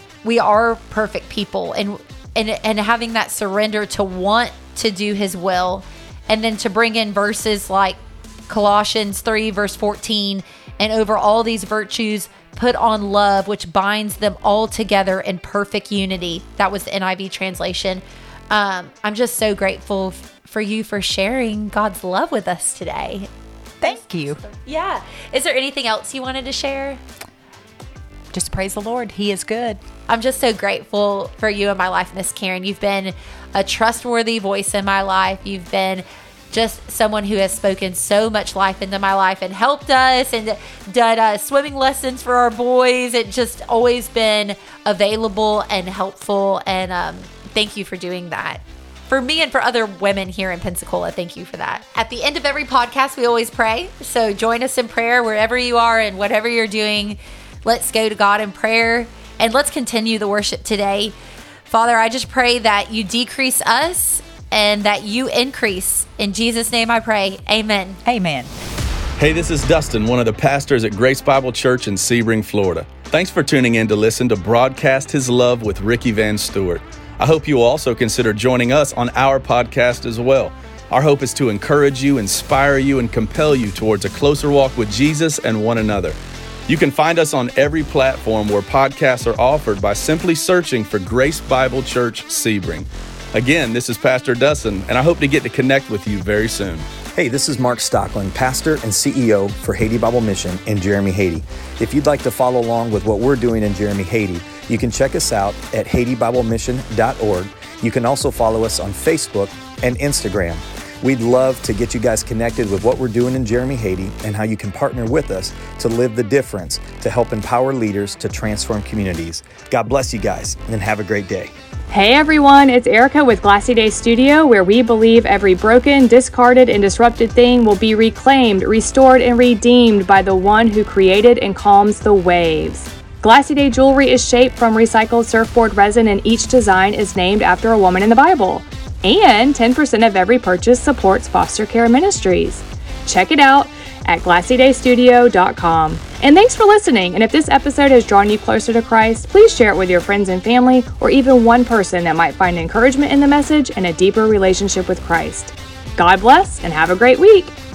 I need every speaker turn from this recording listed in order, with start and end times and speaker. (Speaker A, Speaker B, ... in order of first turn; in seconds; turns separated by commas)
Speaker A: 0.2-23.3, Speaker B: 23.8-24.4, Speaker A: 23.8-27.0, Speaker B: 28.3-29.8, Speaker A: 30.1-61.2, Speaker A: 61.7-68.0, Speaker B: 68.0-68.5, Speaker C: 69.2-86.2, Speaker C: 86.7-96.9, Speaker D: 97.1-121.5, Speaker E: 121.9-157.5